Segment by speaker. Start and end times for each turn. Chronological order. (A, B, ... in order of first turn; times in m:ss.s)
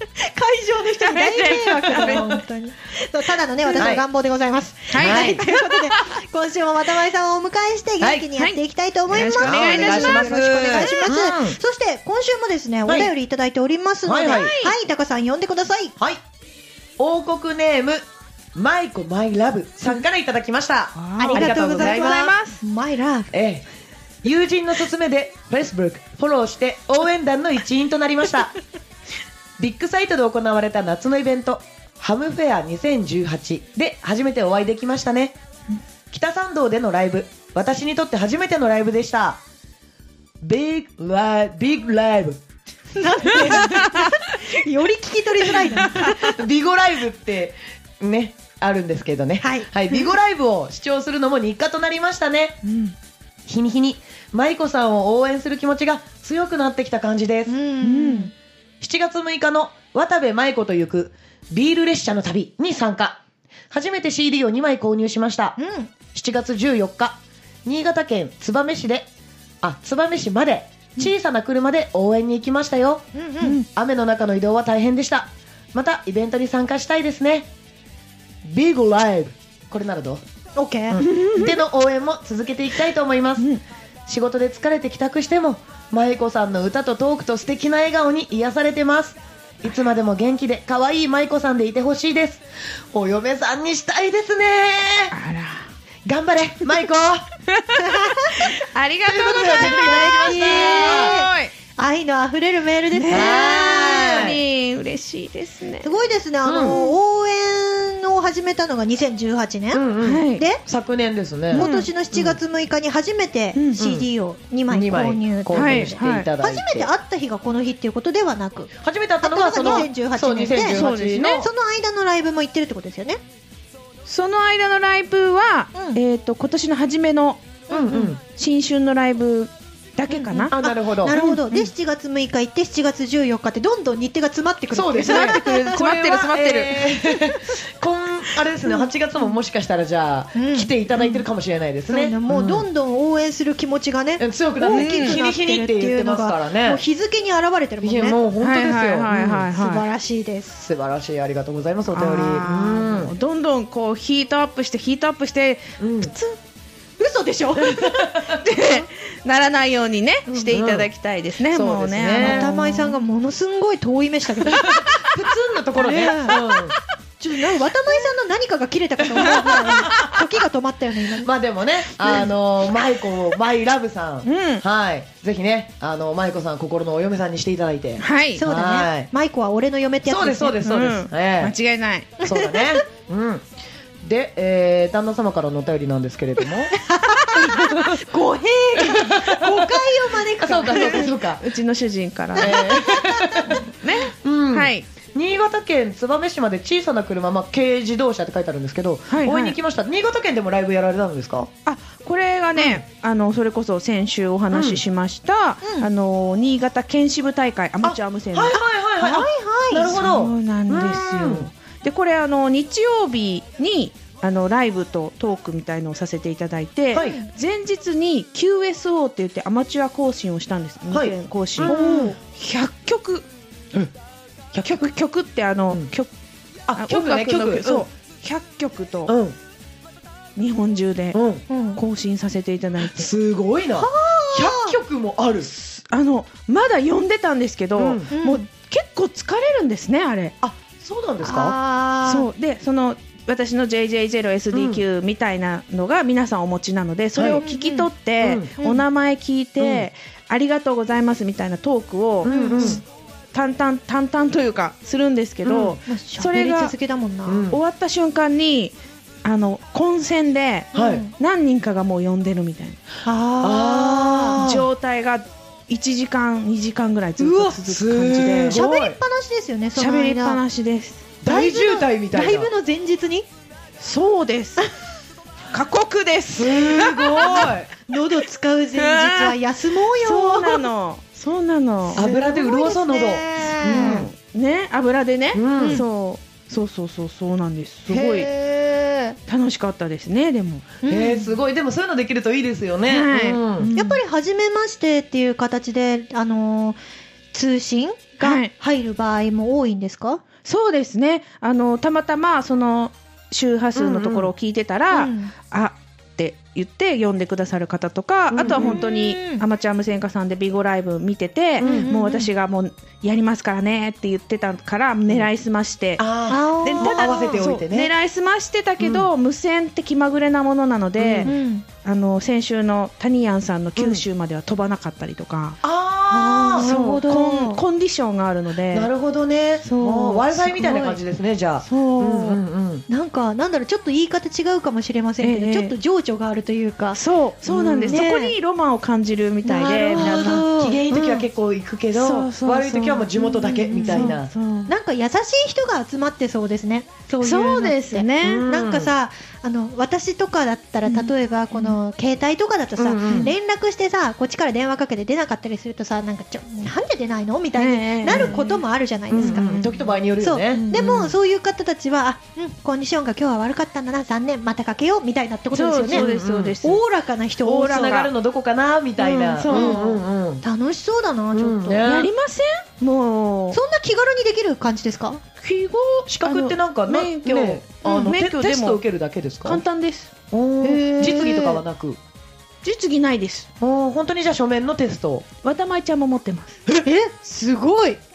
0:00.2-0:16.0 A
0:01.0-0:02.3 B
0:01.9-0:02.4 C
0:03.7-0:04.0 C
0:04.9-0:06.2 B
0:04.9-0:05.4 C
0:08.0-0:08.3 C
0:09.1-0:11.6 C
0:09.1-0:11.1 B
0:12.9-0:13.1 C
0:14.0-0:14.5 C
0:14.3-0:14.7 B
0:17.0-0:18.0 C
0:18.5-0:22.3 C
0:21.0-0:22.6 B
0:21.2-0:23.3 A
0:23.3-0:23.6 C
0:24.2-0:28.6 C
0:29.6-0:35.4 C
0:36.1-0:39.4 C
0:40.4-0:42.4 C
0:42.9-0:46.4 A
0:45.7-0:52.6 C
0:49.4-0:50.0 A
0:52.6-0:52.9 B
0:53.4-0:57.5 C
0:57.5-0:58.3 A
0:57.8-0:58.3 B
0:58.8-1:05.6 C
1:05.6-1:05.9 A
1:06.1-1:09.1 C
1:09.6-1:13.0 C
1:13.1-1:13.6 A
1:13.6-1:17.5 C
1:18.4-1:20.2 C
1:20.6-1:21.0 A
1:20.9-1:23.5 C
1:21.0-1:21.6 B
1:24.1-1:35.2 C
1:35.1-1:35.7 B
1:36.0-1:37.3 C
1:37.5-1:41.5 B
1:37.8-1:38.3 A
1:39.0-1:41.2 C
1:39.5-1:43.6 A
1:42.9-1:45.9 B
1:43.1-1:44.4 C
1:45.8-1:50.6 A
1:46.4-1:46.8 C
1:46.6-1:46.9 B
1:49.7-1:52.4 C
1:50.0-1:50.4 B
1:51.5-1:58.7 A
1:51.6-1:51.9 B
1:53.5-1:53.8 B
1:53.8-1:54.0 C
1:54.7-1:56.9 C
1:55.5-1:56.3 B
1:58.8-2:01.4 C
1:59.2-2:03.2 A
2:00.6-2:01.5 B
2:04.1-2:07.6 B
2:05.7-2:06.0 A
2:07.7-2:08.2 C
2:07.7-2:08.1 A
2:08.2-2:10.5 B
2:10.1-2:15.7 A
2:10.5-2:11.2 C
2:11.1-2:11.7 B
2:14.7-2:22.7 C
2:15.1-2:16.9 B
2:20.3-2:21.2 A
2:21.9-2:28.2 A
2:24.2-2:26.8 C
2:24.7-2:25.2 B
2:27.8-2:29.5 C
2:28.4-2:29.8 B
2:29.5-2:30.6 A
2:30.6-2:33.1 C
2:31.9-2:36.4 B
2:35.8-2:36.1 C
2:37.0-2:38.8 A
2:37.5-2:38.4 C
2:38.4-2:43.0 B
2:40.4-2:40.9 C
2:41.5-2:42.5 C
2:42.2-2:45.0 A
2:44.4-2:46.8 C
2:45.8-2:46.4 A
2:46.3-2:46.6 B
2:47.2-2:51.3 A
2:49.4-2:49.9 B
2:51.2-2:59.1 C
2:54.2-2:54.6 B
2:58.0-2:58.4 B
2:58.4-3:00.6 A
3:00.0-3:01.5 C
3:00.6-3:02.2 B
3:02.2-3:03.4 C
3:02.2-3:02.8 A
3:04.0-3:06.7 C
3:06.7-3:11.1 A
3:07.4-3:08.0 C
3:08.9-3:09.8 C
3:10.4-3:11.5 C
3:10.7-3:12.6 B
3:12.3-3:13.6 A
3:12.4-3:13.6 C
3:13.8-3:14.8 B
3:14.2-3:21.5 C
3:19.1-3:19.6 B
3:21.6-3:28.6 B
3:22.6-3:22.8 C
3:24.5-3:24.8 C
3:25.6-3:25.9 A
3:27.8-3:31.5 C
3:28.5-3:30.0 A
3:29.8-3:43.2 B
3:37.0-3:37.3 A
3:40.9-3:42.1 C
3:41.6-3:42.1 A
3:44.5-3:44.9 C
3:44.6-3:46.1 B
3:46.7-3:47.9 C
3:46.7-3:49.1 B
3:49.1-3:49.4 C
3:50.4-3:51.2 B
3:51.1-3:51.4 C
3:51.5-3:51.8 A
3:51.8-3:53.1 B
3:52.8-3:55.6 C
3:53.8-3:54.8 A
3:55.9-4:00.3 B
3:57.8-3:58.1 C
3:58.1-3:58.5 A
4:00.4-4:01.6 C
4:01.2-4:02.3 A
4:02.0-4:16.7 B
4:04.5-4:04.8 C
4:07.2-4:07.4 C
4:07.4-4:07.9 A
4:08.2-4:08.5 C
4:08.6-4:08.8 A
4:09.6-4:09.9 C
4:12.2-4:12.8 C
4:12.3-4:12.8 A
4:15.4-4:15.8 C
4:15.9-4:17.5 A
4:17.3-4:17.6 C
4:17.5-4:22.8 B
4:20.7-4:21.0 C
4:20.7-4:21.1 A
4:23.0-4:24.4 A
4:23.4-4:24.7 C
4:24.4-4:28.6 B
4:27.2-4:27.5 A
4:27.6-4:29.0 C
4:28.5-4:30.4 A
4:29.8-4:31.1 B
4:31.2-4:32.5 C
4:31.2-4:33.3 A
4:33.8-4:34.7 B
4:35.5-4:37.5 B
4:36.3-4:37.7 C
4:37.1-4:40.7 A
4:38.8-4:39.4 B
4:40.0-4:42.0 B
4:41.9-4:44.0 A
4:41.9-4:44.1 C
4:43.6-4:48.3 B
4:45.3-4:45.8 C
4:45.6-4:45.8 A
4:47.9-4:49.2 A
4:49.3-4:50.7 B
4:50.8-4:51.4 A
4:50.8-4:53.7 C
4:52.9-4:54.0 B
4:53.8-4:56.8 A
4:57.3-5:00.2 A
4:58.2-4:58.5 B
5:00.4-5:16.0 B
5:03.7-5:04.3 C
5:04.9-5:05.3 A
5:08.3-5:08.8 C
5:08.4-5:09.4 A
5:11.6-5:11.9 C
5:11.6-5:12.3 A
5:16.0-5:17.9 C
5:16.3-5:17.4 A
5:16.6-5:25.6 B
5:18.8-5:19.1 C
5:21.0-5:21.3 C
5:21.2-5:21.6 A
5:23.8-5:24.0 C
5:25.6-5:26.7 C
5:26.1-5:27.6 A
5:26.6-5:28.9 B
5:28.7-5:32.8 C
5:29.6-5:31.0 B
5:31.6-5:32.4 B
5:32.9-5:37.0 A
5:35.2-5:35.7 B
5:36.9-5:40.4 B
5:37.4-5:38.0 C
5:37.9-5:38.3 A
5:39.4-5:41.2 A
5:39.6-5:44.3 C
5:41.9-5:44.7 B
5:43.6-5:44.1 A
5:44.7-5:59.6 A
5:47.2-5:48.4 B
5:48.2-5:48.9 C
5:50.8-5:51.8 B
5:52.8-5:53.3 C
5:57.6-5:58.6 B
5:58.1-5:58.4 C
5:59.1-6:01.1 C
5:59.2-5:59.9 B
6:00.2-6:06.0 A
6:05.5-6:06.8 B
6:05.9-6:06.6 C
6:06.6-6:07.8 A
6:07.4-6:08.1 B
6:07.5-6:10.4 C
6:09.0-6:11.8 A
6:09.2-6:09.8 B
6:11.3-6:12.1 C
6:11.8-6:13.6 B
6:13.5-6:15.2 A
6:15.4-6:18.8 B
6:16.1-6:19.6 C
6:19.4-6:20.1 B
6:20.3-6:22.0 C
6:20.6-6:21.6 A
6:22.6-6:23.5 B
6:23.6-6:25.2 C
6:25.4-6:26.6 B
6:26.8-6:28.0 A